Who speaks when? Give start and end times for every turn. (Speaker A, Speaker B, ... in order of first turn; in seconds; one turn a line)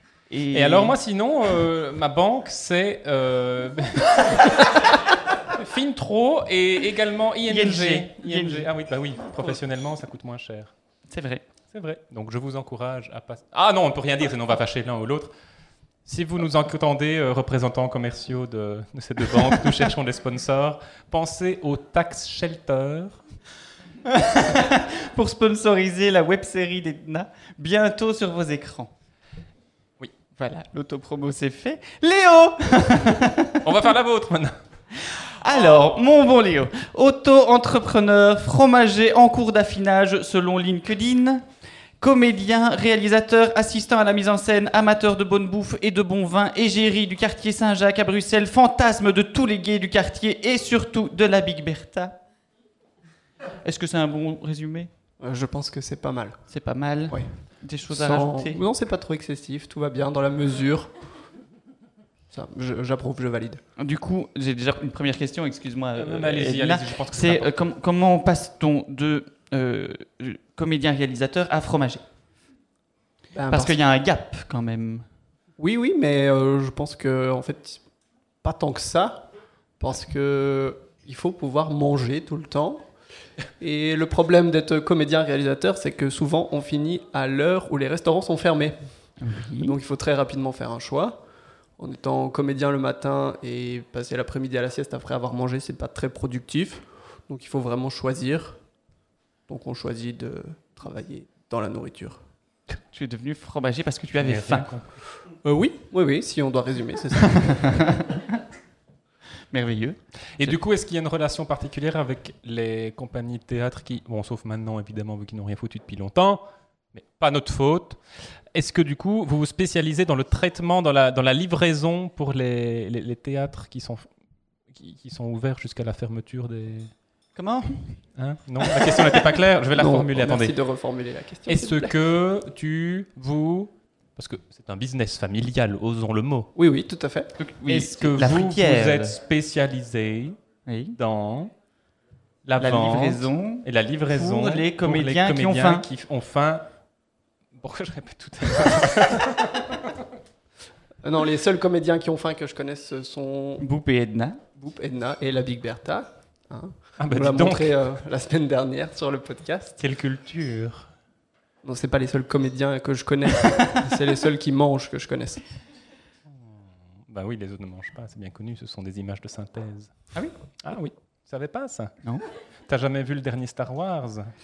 Speaker A: 0.3-0.9
Speaker B: 0.5-10.7
Speaker A: 7.5-8.7
Speaker A: 11.1-11.4
Speaker B: 11.7-15.3
Speaker B: 16.1-23.2
Speaker A: 24.0-28.9
Speaker A: 30.3-33.6
Speaker B: 33.6-34.6
Speaker A: 35.0-41.5
Speaker A: 42.0-52.2
Speaker A: 53.6-54.9
Speaker C: 55.2-56.4
Speaker A: 56.5-58.6
Speaker C: 57.9-60.9
Speaker C: 62.3-63.6
Speaker A: 63.8-72.0
Speaker B: 66.0-67.5
Speaker C: 73.3-73.8
Speaker A: 73.5-75.1
Speaker C: 75.6-77.8
Speaker C: 78.4-82.9
Speaker C: 83.6-88.7
Speaker A: 89.2-89.7
Speaker C: 89.6-91.2
Speaker C: 91.8-98.6
Speaker C: 99.5-102.2
Speaker A: 102.7-104.7
Speaker B: 104.1-104.9
Speaker C: 105.4-107.8
Speaker A: 107.3-108.2
Speaker A: 109.5-110.6
Speaker B: 110.4-116.4
Speaker B: 116.9-118.0
Speaker B: 118.5-124.1
Speaker B: 124.7-126.9
Speaker A: 127.3-128.0
Speaker B: 128.2-130.5
Speaker A: 128.8-129.1
Speaker C: 129.7-131.9
Speaker B: 131.5-136.5
Speaker C: 136.6-137.3
Speaker A: 137.4-139.2
Speaker B: 137.7-140.4
Speaker A: 140.7-140.9
Speaker B: 140.9-141.5
Speaker B: 142.4-146.7
Speaker A: 142.6-145.8
Speaker B: 147.6-150.1
Speaker C: 151.0-153.7
Speaker A: 153.6-154.4
Speaker C: 154.5-159.8
Speaker B: 157.0-157.8
Speaker B: 159.8-160.9
Speaker C: 161.6-165.4
Speaker B: 167.1-169.9
Speaker B: 170.6-171.9
Speaker B: 172.7-174.3